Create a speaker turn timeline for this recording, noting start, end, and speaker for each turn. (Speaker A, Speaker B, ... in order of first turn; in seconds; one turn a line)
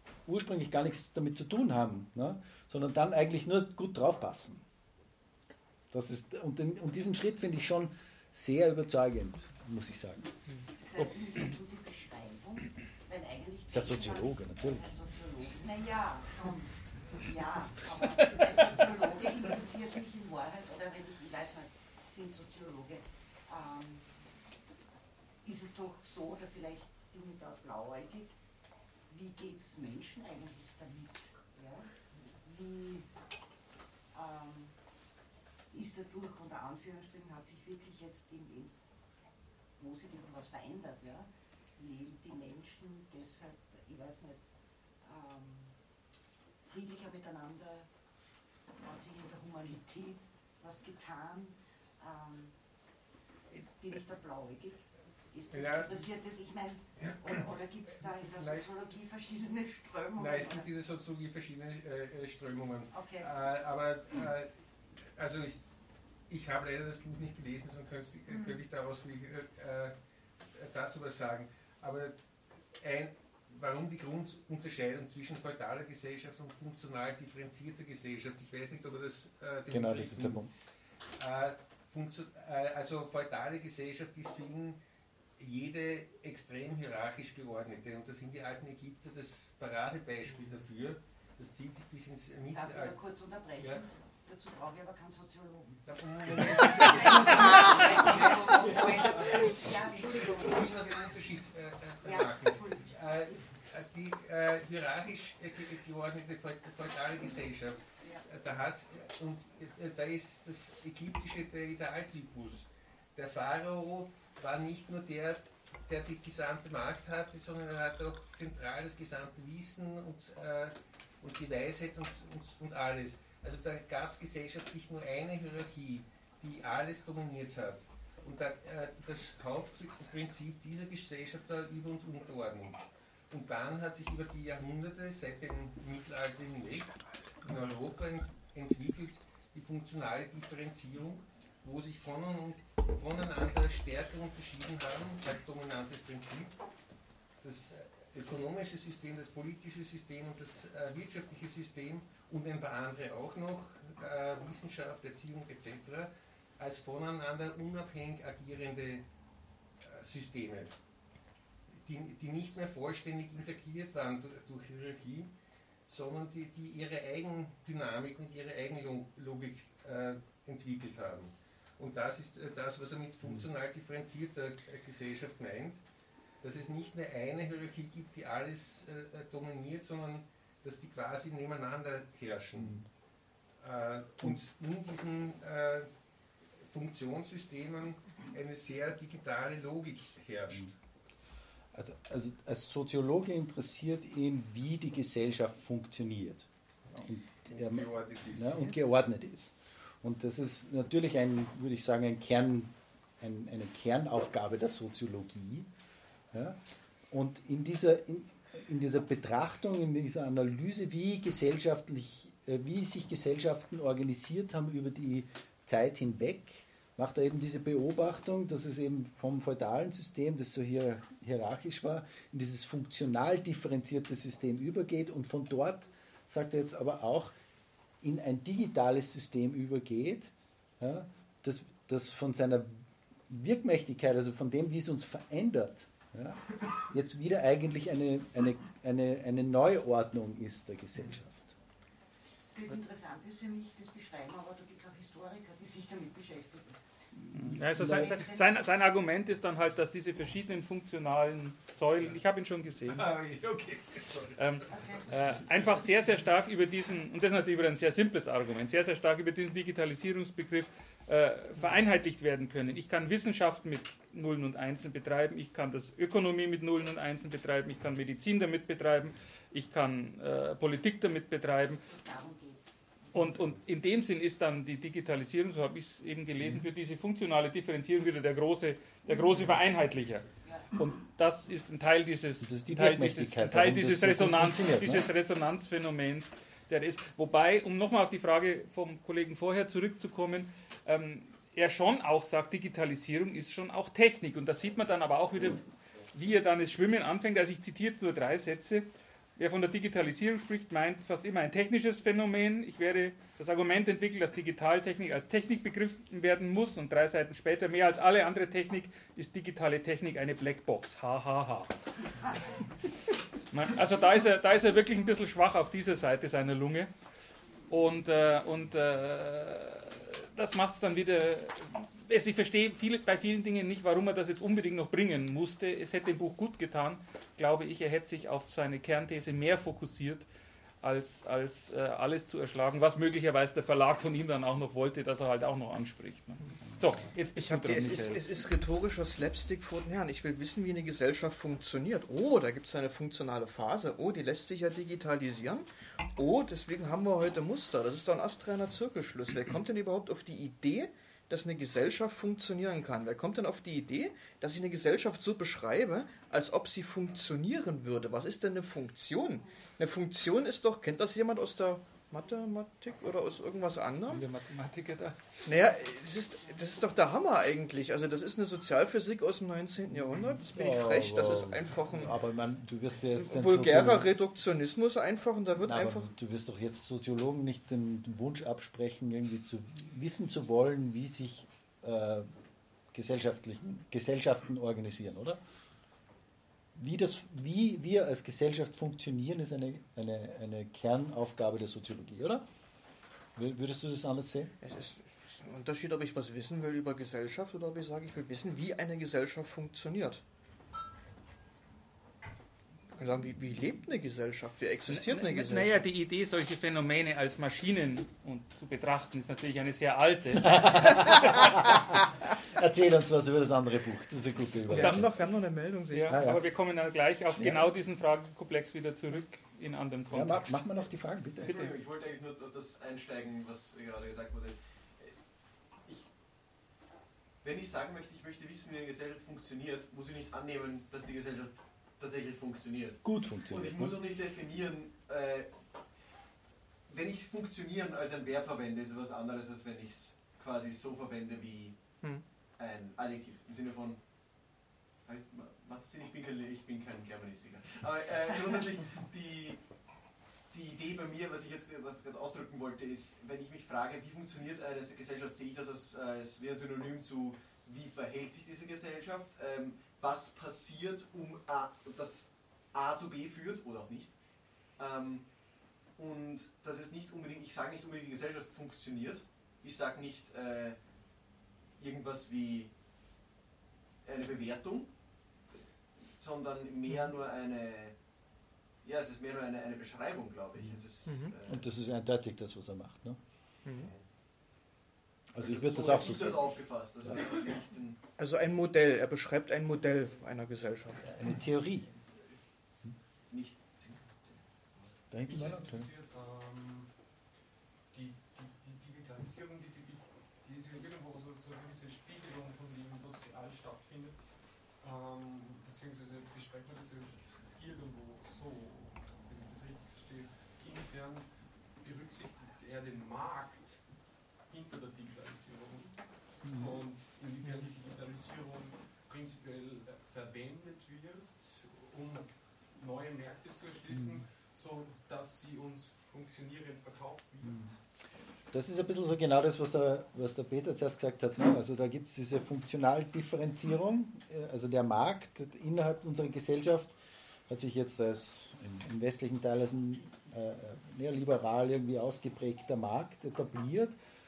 Speaker A: 0.2-4.6
Speaker A: 5.9-10.3
Speaker B: 10.8-24.1
Speaker A: 13.7-14.9
Speaker B: 25.4-28.3
Speaker B: 29.1-33.1
Speaker B: 34.1-34.7
Speaker B: 35.7-38.7
Speaker B: 39.8-44.4
Speaker B: 45.0-45.8
Speaker B: 46.6-47.9
Speaker B: 48.8-52.5
Speaker B: 53.5-60.6
Speaker C: 55.5-56.1
Speaker C: 57.0-57.4
Speaker C: 58.2-58.7
Speaker C: 60.1-65.7
Speaker B: 62.9-63.3
Speaker C: 66.3-70.0
Speaker C: 70.5-72.2
Speaker C: 72.7-80.5
Speaker A: 79.7-80.5
Speaker C: 81.2-84.8
Speaker C: 85.4-93.0
Speaker B: 92.5-101.0
Speaker C: 93.5-93.8
Speaker C: 95.9-132.8
Speaker B: 102.0-103.3
Speaker C: 133.3-146.5
Speaker C: 147.4-159.1
Speaker C: 159.8-160.8
Speaker C: 161.7-165.3
Speaker C: 165.9-175.8
Speaker C: 176.4-182.8
Speaker A: 182.6-182.8
Speaker C: 183.6-185.9
Speaker C: 186.6-190.7
Speaker A: 191.7-205.7
Speaker C: 197.5-198.9
Speaker A: 206.3-206.6
Speaker A: 207.1-227.3
Speaker A: 228.0-241.6
Speaker B: 242.5-246.8
Speaker D: 247.3-253.1
Speaker A: 247.4-248.1
Speaker B: 247.8-248.5
Speaker C: 252.9-254.4
Speaker D: 254.4-271.8
Speaker B: 254.7-255.0
Speaker B: 271.8-272.7
Speaker D: 273.1-311.8
Speaker A: 282.4-285.1
Speaker D: 313.5-316.9
Speaker D: 317.7-330.2
Speaker D: 330.8-338.2
Speaker E: 337.4-364.2
Speaker D: 364.1-365.4
Speaker E: 365.4-372.1
Speaker A: 370.1-374.1
Speaker E: 373.1-376.1
Speaker A: 375.6-382.3
Speaker A: 382.9-385.4
Speaker A: 386.7-392.5
Speaker A: 393.4-394.5
Speaker E: 394.6-400.2
Speaker E: 402.9-405.8
Speaker D: 404.9-411.3
Speaker A: 410.4-411.8
Speaker A: 412.5-415.1
Speaker E: 414.7-416.3
Speaker D: 414.7-415.0
Speaker D: 415.9-420.6
Speaker A: 416.1-416.4
Speaker A: 417.4-417.7
Speaker A: 420.1-421.6
Speaker F: 421.4-425.2
Speaker D: 421.4-421.7
Speaker F: 425.8-426.1
Speaker F: 427.4-435.5
Speaker A: 433.0-433.9
Speaker F: 436.9-444.4
Speaker F: 445.0-449.9
Speaker F: 450.5-464.2
Speaker F: 464.7-470.8
Speaker F: 471.8-472.7
Speaker F: 474.0-474.9
Speaker F: 476.2-477.9
Speaker F: 478.8-481.6
Speaker E: 481.1-481.4
Speaker A: 481.4-483.2
Speaker E: 483.6-483.9
Speaker A: 485.3-487.2
Speaker F: 485.4-487.9
Speaker E: 488.2-491.2
Speaker A: 491.1-491.9
Speaker F: 493.3-494.2
Speaker A: 495.1-495.9
Speaker G: 495.2-496.9
Speaker G: 497.9-527.8
Speaker A: 516.4-516.8
Speaker A: 523.9-524.2
Speaker A: 528.5-537.0
Speaker A: 537.5-544.0